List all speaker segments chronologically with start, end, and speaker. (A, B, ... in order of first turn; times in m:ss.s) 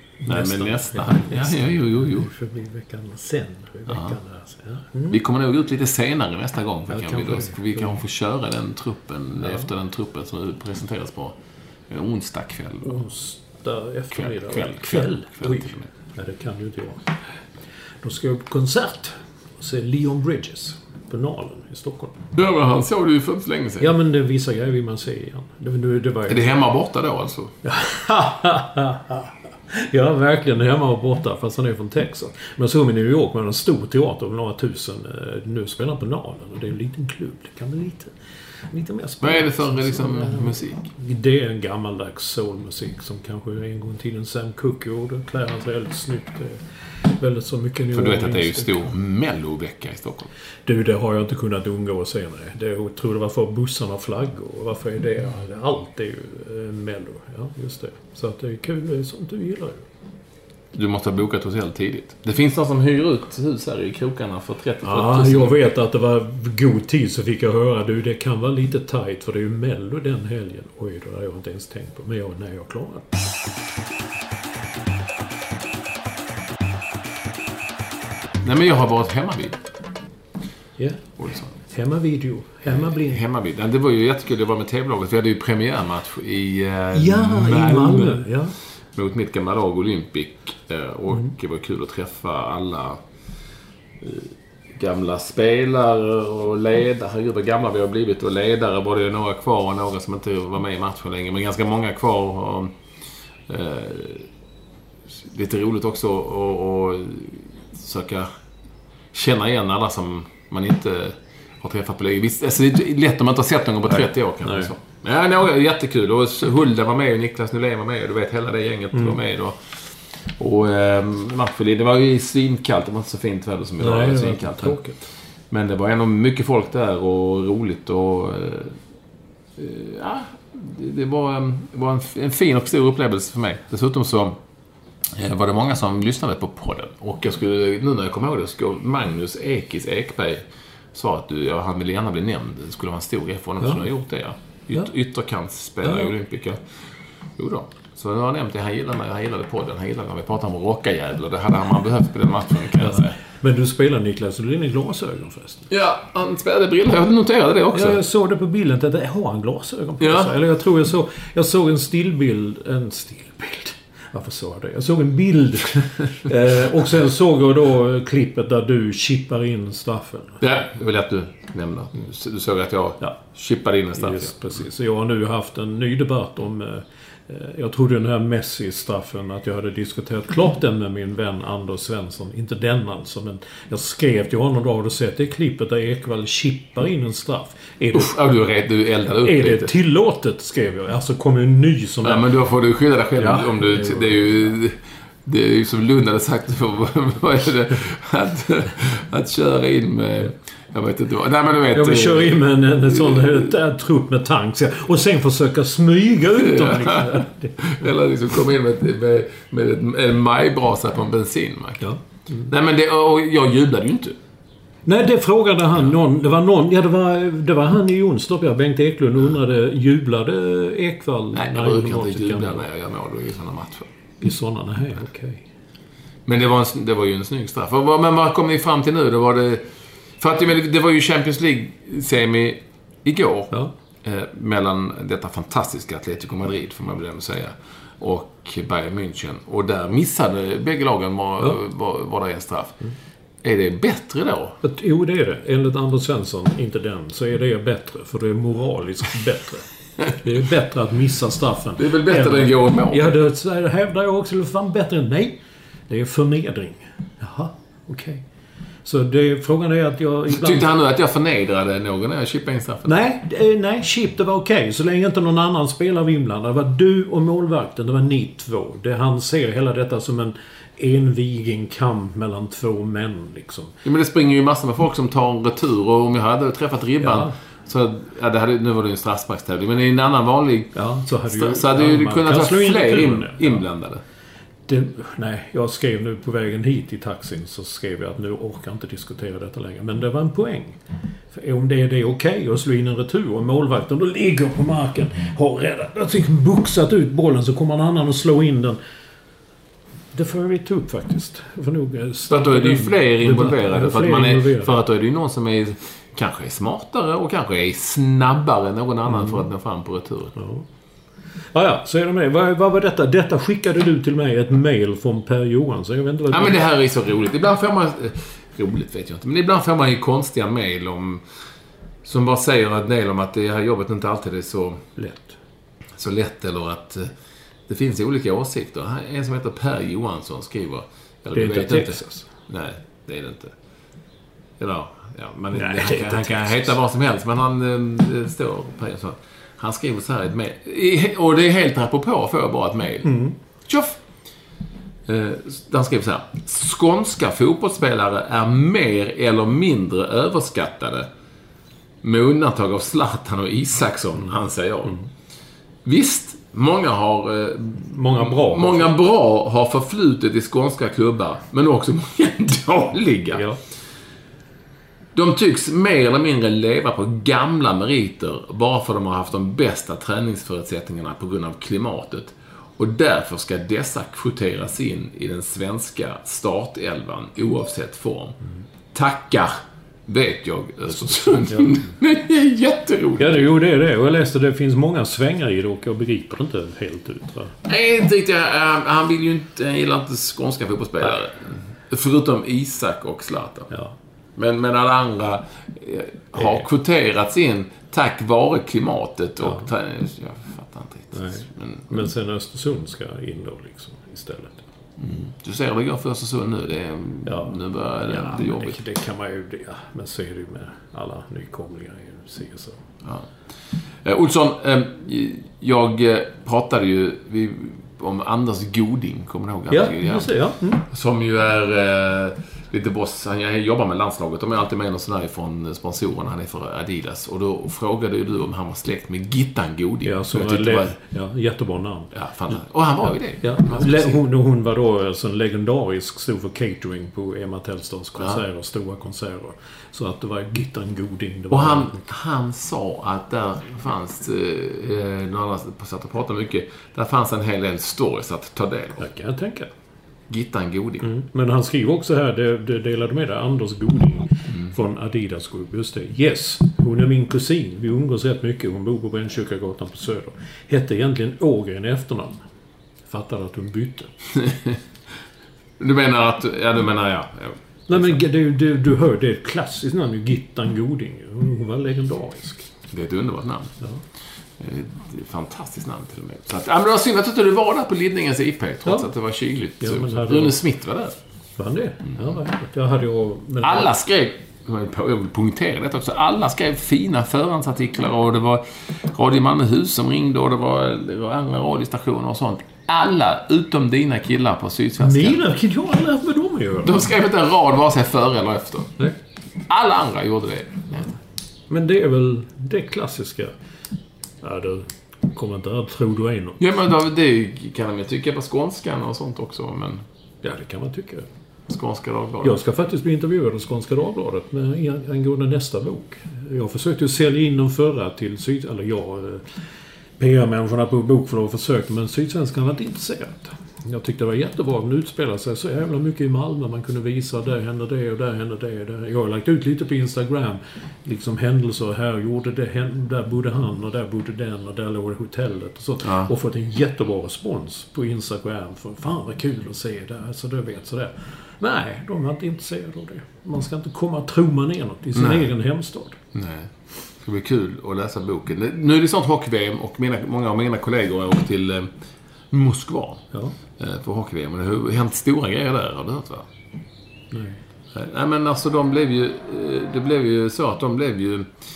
0:00.2-0:05.2 A
0:00.3-0:02.3 B
0:03.9-0:04.2 B
0:05.1-0:11.4 B
0:06.9-0:08.0 A
0:09.4-0:09.7 A
0:11.9-0:13.0 B
0:12.8-0:17.1 A
0:14.1-0:15.9 B
0:18.0-0:22.2 A
0:22.4-0:23.9 B
0:23.8-0:26.6 A
0:26.3-0:27.5 B
0:27.6-0:38.1 A
0:38.7-0:48.9 A
0:39.2-0:40.9 B
0:47.9-0:50.3 B
0:50.7-0:59.8 A
1:00.7-1:05.6 B
1:04.8-1:13.1 A
1:18.4-1:19.6 B
1:20.8-1:23.2 A
1:21.2-1:21.5 B
1:22.7-1:28.4 B
1:26.9-1:28.6 A
1:28.9-1:33.0 B
1:34.0-1:42.7 B
1:43.5-1:44.3 B
1:45.2-1:48.3 B
1:49.1-2:08.8 B
1:53.9-1:54.7 A
2:03.8-2:05.0 A
2:09.6-2:14.4 B
2:15.2-2:26.6 B
2:25.8-2:26.1 A
2:27.4-2:33.2 B
2:32.8-2:35.7 A
2:35.7-2:38.0 B
2:37.7-2:50.4 A
2:40.0-2:40.3 B
2:50.4-2:54.4 B
2:54.0-3:08.2 A
3:07.9-3:09.7 B
3:09.2-3:12.3 A
3:12.0-3:23.5 B
3:13.2-3:14.2 A
3:21.7-3:27.9 A
3:26.4-3:31.9 B
3:31.8-3:32.5 A
3:32.5-3:34.2 B
3:34.9-3:42.7 A
3:41.3-3:43.9 B
3:44.2-3:45.5 A
3:46.3-3:49.6 B
3:50.2-4:02.8 B
4:03.4-4:04.6 B
4:04.6-4:18.2 A
4:11.8-4:13.1 B
4:18.8-4:20.7 A
4:20.3-4:23.0 B
4:22.8-4:33.7 A
4:33.8-4:44.0 B
4:37.0-4:37.3 A
4:40.8-4:43.6 A
4:44.7-4:50.8 A
4:51.3-4:58.8 A
5:00.1-5:04.8 A
5:02.3-5:10.4 B
5:09.1-5:09.4 A
5:10.4-5:10.6 A
5:11.5-5:16.6 A
5:16.3-5:21.2 B
5:22.0-5:24.8 B
5:25.0-5:25.4 A
5:26.0-5:27.1 B
5:27.7-5:33.5 B
5:31.4-5:32.3 A
5:34.6-5:44.0 B
5:35.5-5:36.7 A
5:43.0-5:43.4 A
5:45.1-5:51.1 B
5:52.0-5:55.0 B
5:55.8-6:03.5 B
5:57.9-5:58.9 A
6:03.3-6:03.6 A
6:05.2-6:18.4 B
6:18.9-6:19.5 B
6:20.1-6:23.5 B
6:21.0-6:21.9 A
6:23.2-6:27.6 A
6:27.7-6:33.7 B
6:34.4-6:41.9 B
6:36.4-6:36.6 A
6:39.4-6:39.7 A
6:41.1-6:44.7 A
6:45.0-6:48.8 B
6:47.2-6:52.8 A
6:54.0-7:11.0 B
6:59.7-7:00.8 A
7:10.0-7:12.6 A
7:12.1-7:14.2 B
7:13.4-7:22.1 A
7:21.5-7:29.0 B
7:29.0-7:29.7 A
7:30.3-7:31.1 B
7:31.0-7:42.4 A
7:43.1-7:44.1 A
7:44.4-7:44.8 B
7:45.8-7:48.2 B
7:47.9-7:52.7 A
7:52.9-7:53.8 B
7:54.6-8:01.2 B
7:59.8-8:00.6 A
8:01.6-8:03.9 A
8:03.6-8:15.4 B
8:15.0-8:17.0 A
8:16.8-8:19.0 B
8:19.7-8:21.2 B
8:21.7-8:23.5 A
8:24.4-8:26.6 A
8:26.6-8:30.0 B
8:30.4-8:31.3 A
8:31.7-8:32.6 B
8:32.4-8:39.6 A
8:40.2-9:06.2 A
8:56.0-8:56.3 B
9:05.2-9:05.5 B
9:06.3-9:11.9 B
9:12.5-9:16.5 B
9:17.3-9:17.6 A
9:17.9-9:21.5 B